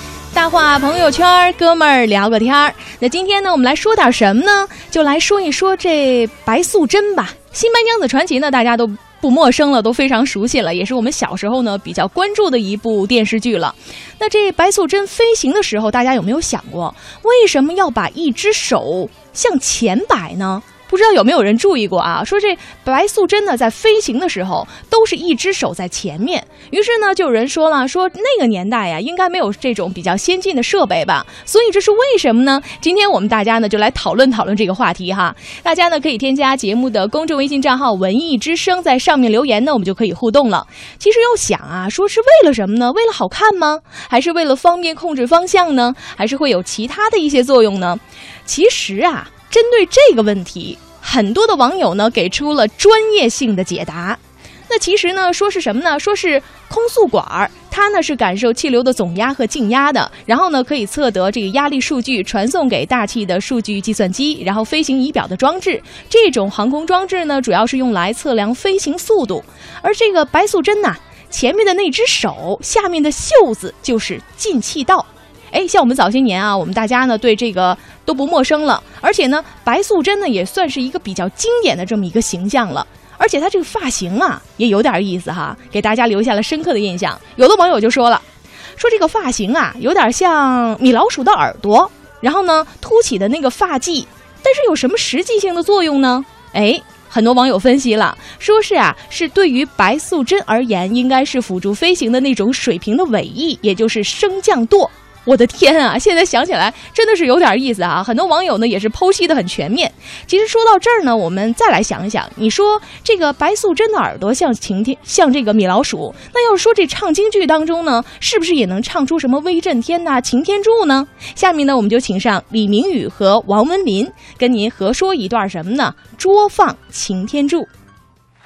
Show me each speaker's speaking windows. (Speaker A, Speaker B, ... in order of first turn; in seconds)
Speaker A: 0.3-88.2, 88.8-127.7